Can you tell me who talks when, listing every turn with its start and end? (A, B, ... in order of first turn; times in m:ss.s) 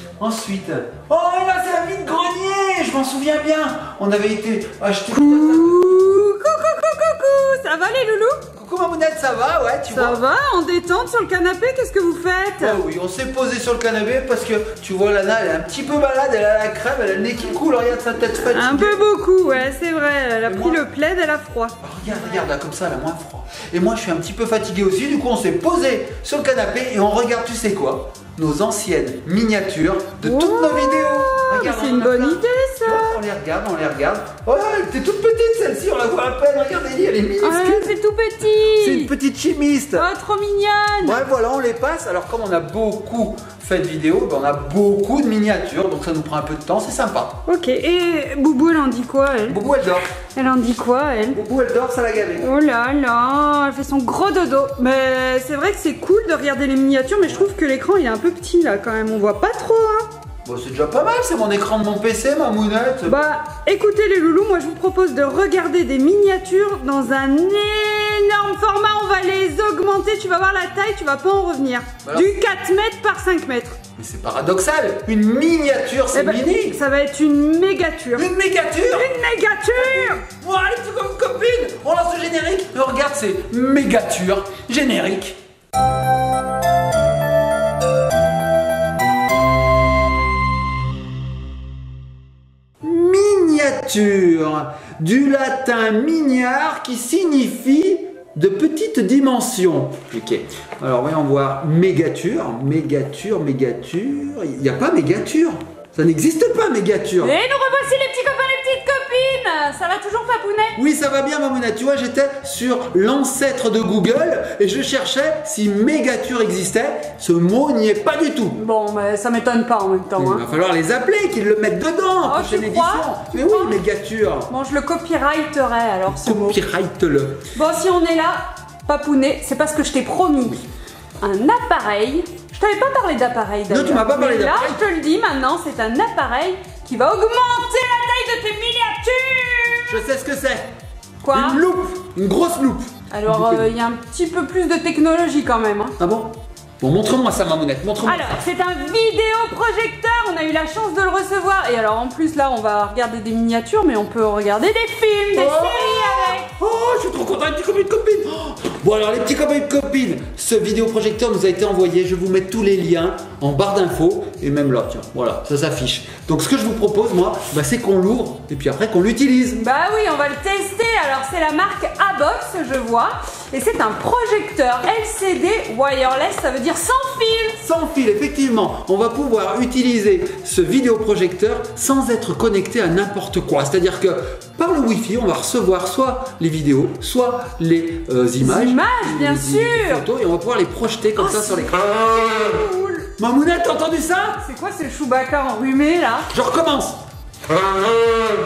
0:00.2-0:05.8 A
0:05.1-0:08.4 B
0:08.5-0:10.2 A
0:09.9-0:12.8 B
0:12.6-0:19.0 A
0:18.5-0:21.8 B
0:20.4-0:20.8 A
0:21.8-0:37.9 A
0:30.2-0:33.2 B
0:37.4-0:39.1 B
0:38.7-0:40.1 A
0:39.9-0:41.2 B
0:41.0-0:47.4 A
0:47.5-0:49.6 B
0:49.4-0:50.1 A
0:50.2-0:51.4 B
0:51.3-0:52.5 A
0:52.4-1:00.1 B
1:00.4-1:03.2 A
1:03.0-1:13.8 B
1:12.0-1:12.4 A
1:14.0-1:16.8 A
1:16.1-1:20.2 B
1:18.1-1:25.4 A
1:32.8-1:47.4 A
1:47.2-1:50.8 B
1:50.8-1:58.6 A
1:58.5-2:00.4 B
2:00.2-2:04.5 A
2:02.2-2:03.8 B
2:04.5-2:06.6 B
2:06.1-2:07.4 A
2:07.5-2:10.6 B
2:11.2-2:20.0 B
2:13.7-2:14.8 A
2:19.9-2:20.7 A
2:21.2-2:21.6 B
2:21.3-2:23.7 A
2:23.1-2:25.9 B
2:26.0-2:28.3 A
2:28.0-2:36.4 B
2:35.3-2:49.6 A
2:49.5-2:57.6 B
2:57.6-3:11.9 A
3:08.4-3:10.0 B
3:11.2-3:13.1 B
3:13.2-3:14.4 A
3:14.4-3:16.3 B
3:16.3-3:17.0 A